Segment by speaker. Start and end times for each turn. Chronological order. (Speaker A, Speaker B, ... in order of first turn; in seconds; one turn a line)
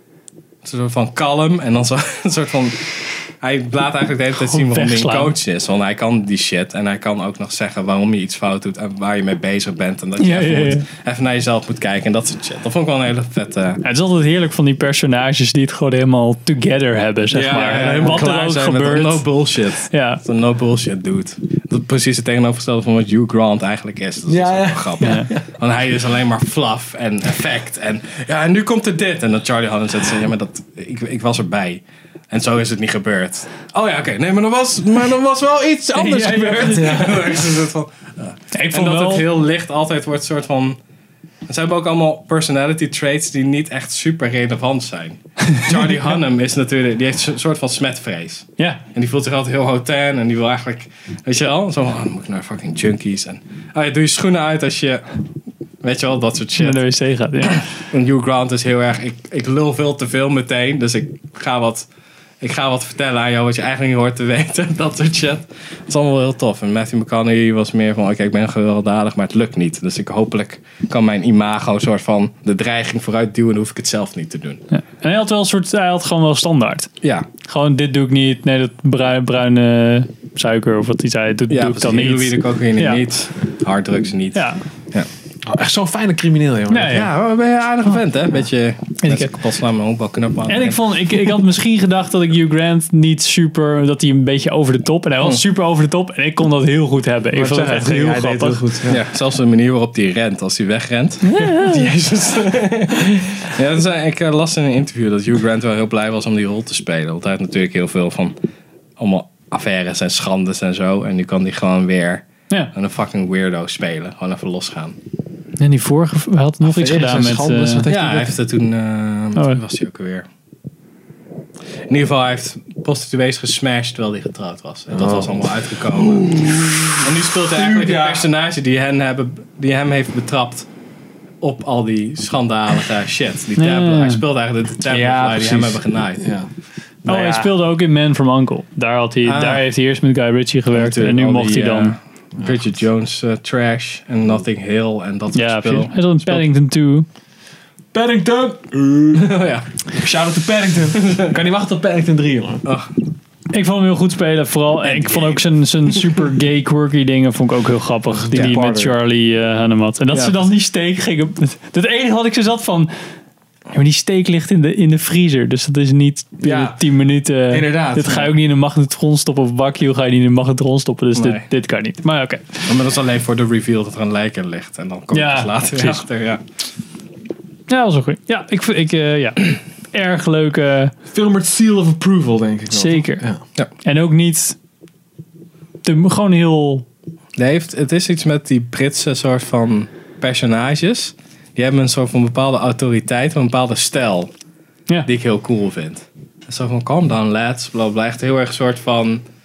Speaker A: 0.6-13.8
Speaker B: 4.4-5.3
Speaker B: 10.2-10.9
Speaker B: 13.8-19.3
Speaker C: 17.3-18.3
Speaker A: 17.3-40.8
Speaker B: 19.9-20.2
Speaker C: 24.3-25.4
Speaker B: 25.0-25.3
Speaker B: 36.0-37.1
Speaker C: 36.8-37.2
Speaker B: 38.5-39.3
Speaker A: 41.5-55.2
Speaker A: 55.8-56.8
Speaker B: 56.6-57.6
Speaker A: 57.5-61.9
Speaker A: 62.4-74.6
Speaker B: 74.7-76.9
Speaker A: 77.0-77.3
Speaker B: 77.4-83.0
Speaker A: 81.5-85.1
Speaker B: 84.3-84.6
Speaker C: 85.5-87.1
Speaker B: 86.7-87.1
Speaker A: 86.9-90.8
Speaker B: 89.0-89.3
Speaker B: 90.5-98.6
Speaker C: 97.3-99.0
Speaker A: 98.9-108.4
Speaker B: 101.2-101.9
Speaker A: 109.0-115.0
Speaker B: 115.6-117.8
Speaker C: 116.6-118.3
Speaker A: 117.9-120.3
Speaker A: 121.9-130.7
Speaker C: 124.9-128.2
Speaker A: 131.4-136.2
Speaker B: 133.6-134.2
Speaker C: 134.9-136.5
Speaker C: 137.1-137.5
Speaker B: 137.1-142.0
Speaker A: 139.2-139.7
Speaker A: 140.7-146.5
Speaker B: 145.3-147.1
Speaker C: 147.9-149.3
Speaker A: 149.1-149.7
Speaker C: 150.0-152.6
Speaker A: 152.7-152.9
Speaker B: 153.5-162.9
Speaker A: 154.8-156.1
Speaker C: 158.3-158.9
Speaker A: 160.1-160.4
Speaker B: 163.7-172.7
Speaker C: 166.4-166.9
Speaker C: 167.5-168.3
Speaker A: 171.1-171.5
Speaker A: 172.7-176.4
Speaker B: 175.1-176.0
Speaker B: 177.7-180.9
Speaker C: 181.1-183.4
Speaker B: 182.7-183.2
Speaker B: 183.8-184.6
Speaker B: 185.8-186.8
Speaker A: 187.4-194.3
Speaker A: 195.1-199.2